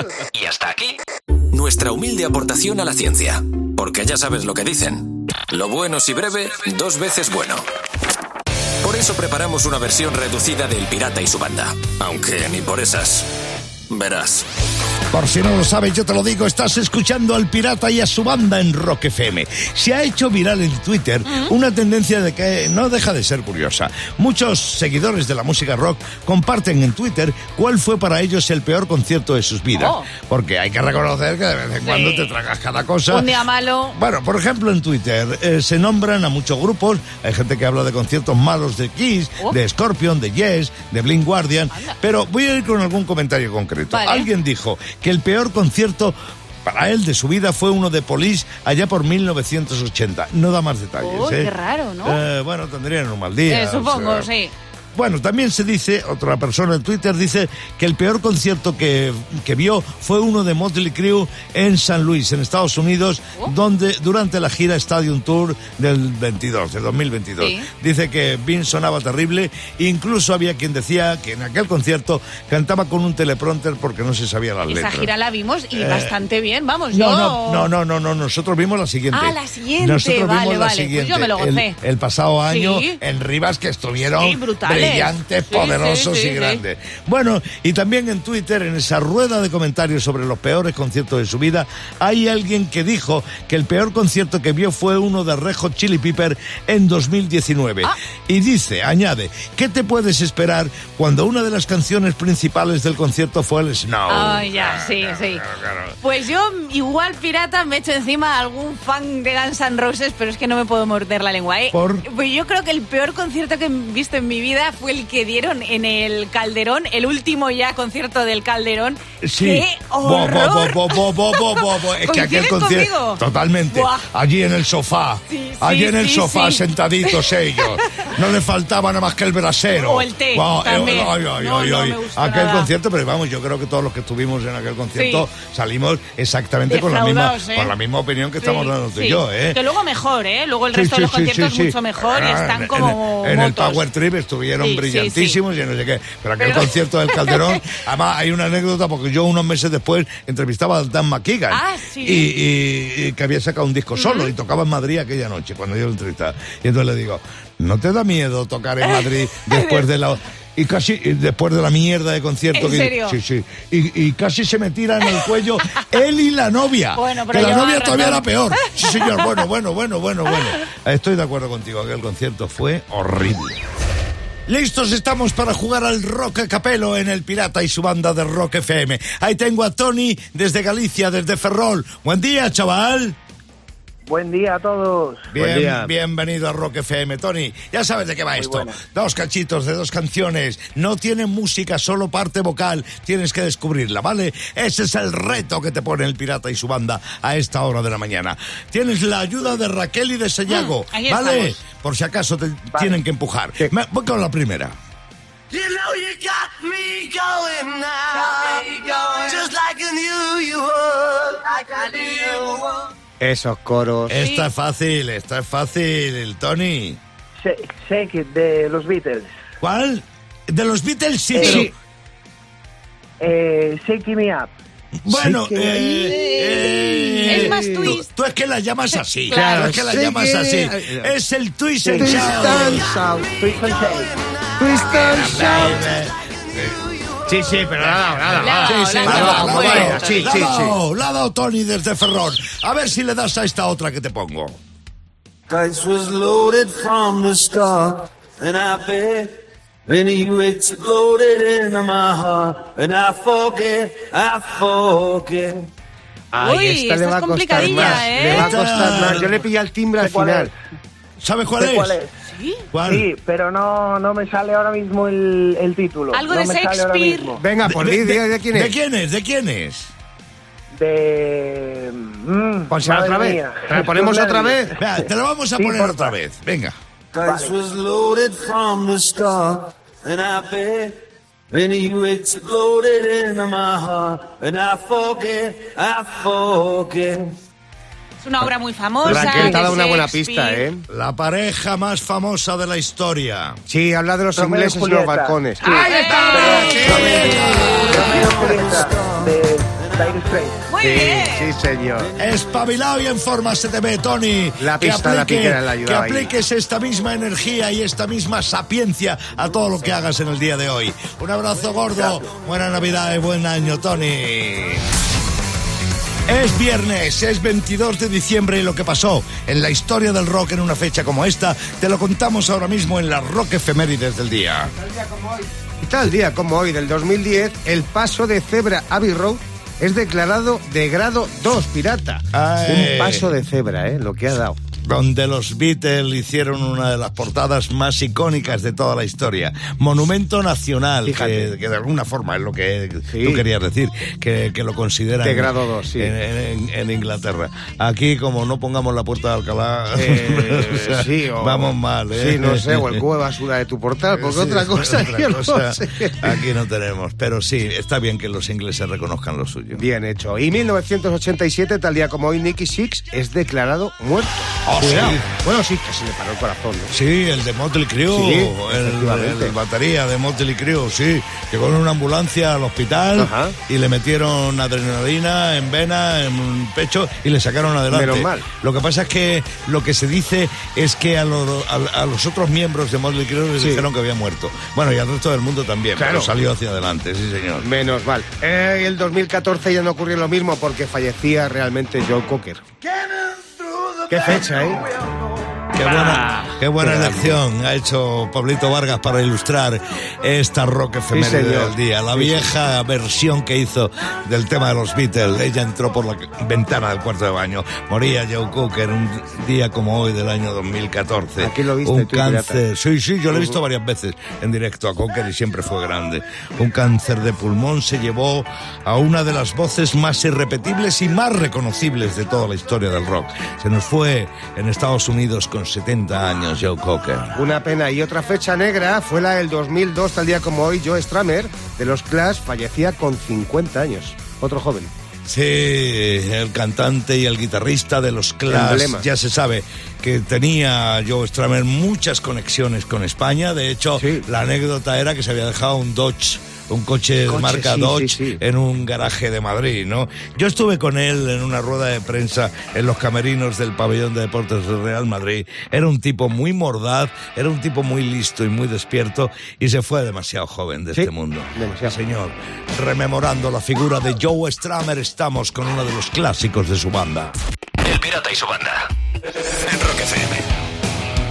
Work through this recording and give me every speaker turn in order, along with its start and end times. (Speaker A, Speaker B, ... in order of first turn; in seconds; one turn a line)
Speaker A: 0.3-1.0
Speaker A: 1.5-7.6
Speaker A: 8.8-13.3
Speaker A: 13.9-14.4
Speaker B: 15.1-33.3
Speaker C: 21.3-21.5
Speaker C: 29.8-30.1
Speaker C: 31.8-32.3
Speaker C: 33.1-34.0
Speaker B: 33.9-51.5
Speaker C: 41.7-42.0
Speaker C: 43.9-44.3
Speaker C: 51.0-52.2
Speaker B: 52.0-54.3
Speaker C: 53.5-54.5
Speaker B: 55.0-75.1
Speaker C: 67.4-67.7
Speaker C: 74.7-77.7
Speaker B: 75.8-76.2
Speaker B: 76.9-106.0
Speaker C: 79.1-81.8
Speaker C: 82.5-83.0
Speaker C: 84.1-86.6
Speaker C: 104.1-105.4
Speaker C: 106.0-123.2
Speaker B: 111.7-112.1
Speaker B: 119.2-139.6
Speaker C: 123.7-124.0
Speaker C: 125.3-128.1
Speaker C: 129.7-132.7
Speaker C: 134.9-135.2
Speaker C: 136.7-137.7
Speaker C: 138.4-143.8
Speaker B: 140.7-173.6
Speaker C: 144.6-145.4
Speaker C: 146.4-147.7
Speaker C: 151.5-152.3
Speaker C: 154.0-154.3
Speaker C: 158.8-159.9
Speaker C: 162.5-163.2
Speaker C: 167.0-169.3
Speaker B: 174.5-183.2
Speaker D: 184.1-185.3
Speaker B: 185.3-204.8
Speaker E: 185.3-185.9
Speaker D: 188.3-188.8
Speaker C: 200.5-201.6
Speaker D: 202.8-203.0
Speaker E: 205.5-211.3
Speaker E: 213.2-214.2
Speaker B: 214.1-217.0
Speaker C: 214.2-214.5
Speaker D: 217.4-219.3
Speaker B: 219.6-221.7
Speaker D: 221.3-221.7
Speaker E: 221.4-221.7
Speaker D: 223.2-224.5
Speaker B: 225.0-233.0
Speaker E: 225.1-226.7
Speaker C: 226.6-228.1
Speaker E: 227.2-227.9
Speaker E: 229.3-231.1
Speaker E: 231.8-233.5
Speaker D: 231.9-232.6
Speaker D: 233.4-234.1
Speaker E: 234.6-235.9
Speaker B: 234.8-236.8
Speaker E: 237.3-240.8
Speaker C: 238.4-240.1
Speaker B: 238.6-244.6
Speaker D: 239.7-240.2
Speaker F: 245.5-249.3
Speaker F: 249.9-255.6
Speaker E: 256.3-260.5
Speaker C: 256.4-258.6
Speaker B: 257.6-259.3
Speaker D: 260.0-260.5
Speaker B: 261.2-262.0
Speaker D: 261.6-262.1
Speaker C: 262.3-262.6
Speaker B: 262.7-263.1
Speaker D: 262.8-267.4
Speaker C: 266.1-267.4
Speaker E: 267.4-268.8
Speaker B: 267.7-269.9
Speaker D: 270.7-276.1
Speaker E: 272.7-274.8
Speaker B: 274.8-276.8
Speaker F: 277.1-280.9
Speaker D: 277.2-277.6
Speaker F: 281.5-287.3
Speaker C: 288.2-290.7
Speaker E: 289.0-290.9
Speaker D: 289.0-289.8
Speaker B: 290.9-293.6
Speaker E: 293.7-298.9
Speaker D: 294.4-295.4
Speaker C: 295.6-297.9
Speaker B: 295.7-298.1
Speaker D: 296.3-300.6
Speaker F: 298.0-300.2
Speaker C: 300.7-301.5
Speaker E: 300.8-302.1
Speaker F: 302.0-302.6
Speaker B: 302.2-314.8
Speaker E: 304.6-306.3
Speaker E: 311.9-312.2
Speaker B: 316.3-324.7
Speaker E: 324.7-334.6
Speaker B: 332.3-333.3
Speaker B: 334.8-353.0
Speaker E: 341.0-341.6
Speaker E: 343.1-343.4
Speaker E: 345.2-346.1
Speaker E: 349.9-356.5
Speaker B: 354.2-359.8
Speaker E: 359.7-366.9
Speaker B: 364.6-365.3
Speaker B: 366.9-387.7
Speaker E: 368.1-369.6
Speaker E: 373.2-373.6
Speaker E: 377.9-378.5
Speaker E: 383.6-383.9
Speaker E: 386.0-386.3
Speaker E: 387.6-392.6
Speaker E: 394.1-394.8
Speaker B: 395.7-427.4
Speaker E: 395.8-397.4
Speaker E: 401.1-402.5
Speaker E: 411.4-412.6
Speaker E: 413.3-413.6
Speaker E: 427.3-434.9
Speaker B: 435.3-467.3
Speaker E: 438.5-439.1
Speaker E: 444.0-444.3
Speaker E: 447.3-448.4
Speaker E: 460.9-462.0
Speaker A: 467.8-470.5